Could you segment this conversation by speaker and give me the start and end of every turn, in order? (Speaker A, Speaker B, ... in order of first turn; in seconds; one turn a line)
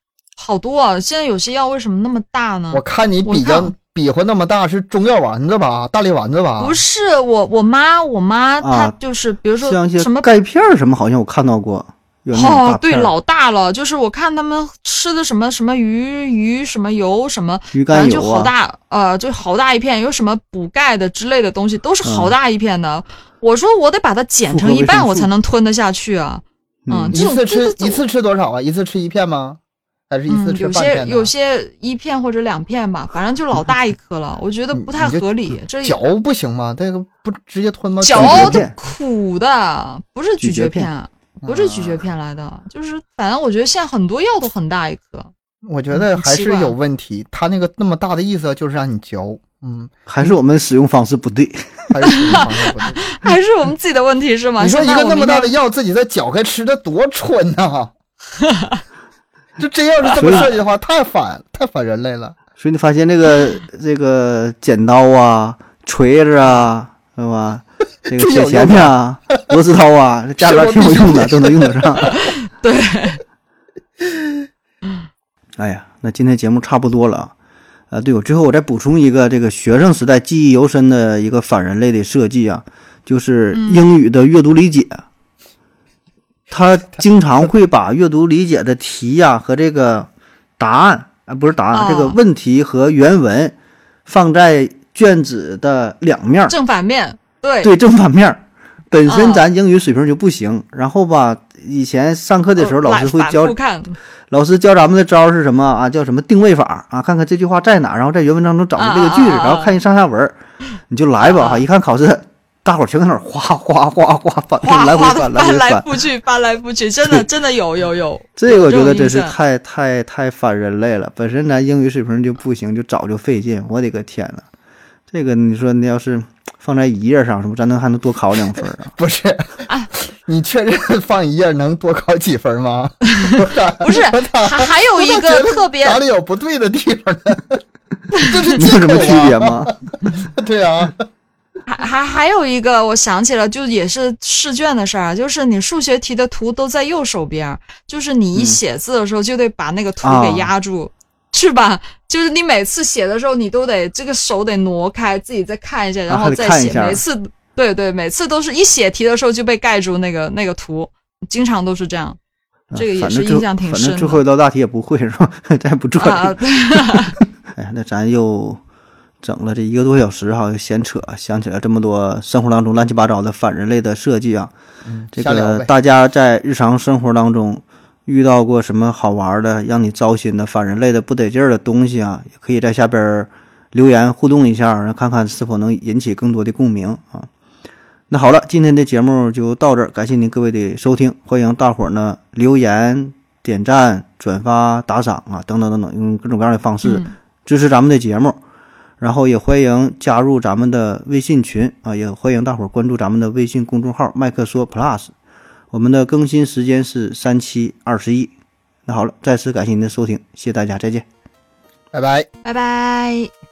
Speaker A: 0.4-3.7
Speaker B: 2.7-6.8
Speaker A: 6.6-10.3
Speaker C: 8.6-8.9
Speaker C: 9.6-13.1
Speaker A: 12.3-28.0
Speaker C: 17.7-18.5
Speaker C: 22.0-22.3
Speaker C: 24.5-25.3
Speaker C: 26.9-27.2
Speaker B: 27.1-31.3
Speaker A: 30.3-36.0
Speaker B: 34.7-35.2
Speaker B: 35.8-38.6
Speaker A: 38.0-45.3
Speaker C: 38.1-38.7
Speaker C: 40.4-40.9
Speaker B: 41.4-42.0
Speaker B: 45.6-50.3
Speaker A: 45.9-46.8
Speaker C: 50.1-51.9
Speaker B: 51.9-53.1
Speaker A: 52.1-55.5
Speaker B: 54.6-57.9
Speaker A: 58.4-58.8
Speaker B: 59.6-62.4
Speaker C: 60.2-60.5
Speaker C: 62.6-72.1
Speaker B: 68.1-69.0
Speaker B: 70.4-72.1
Speaker A: 72.1-73.2
Speaker C: 75.6-77.3
Speaker C: 77.9-85.0
Speaker A: 83.5-83.8
Speaker C: 86.5-90.1
Speaker C: 90.6-93.5
Speaker A: 91.7-92.2
Speaker C: 94.1-96.6
Speaker A: 96.5-97.7
Speaker C: 97.6-103.6
Speaker A: 99.1-99.4
Speaker A: 102.6-104.0
Speaker C: 104.3-110.4
Speaker A: 108.8-109.7
Speaker C: 110.9-115.9
Speaker A: 111.2-111.7
Speaker A: 114.6-119.3
Speaker C: 118.4-124.5
Speaker C: 125.1-128.9
Speaker B: 129.0-137.6
Speaker A: 133.2-136.0
Speaker B: 138.2-141.1
Speaker C: 138.6-139.8
Speaker A: 141.7-162.2
Speaker C: 150.0-150.5
Speaker C: 156.1-157.0
Speaker C: 162.7-168.6
Speaker A: 162.7-164.2
Speaker A: 166.0-167.2
Speaker C: 169.2-174.5
Speaker B: 174.8-175.7
Speaker C: 175.1-187.3
Speaker C: 188.1-198.4
Speaker A: 196.8-197.2
Speaker C: 199.0-205.1
Speaker C: 205.7-208.3
Speaker C: 208.9-211.1
Speaker B: 211.9-212.3
Speaker A: 212.4-213.3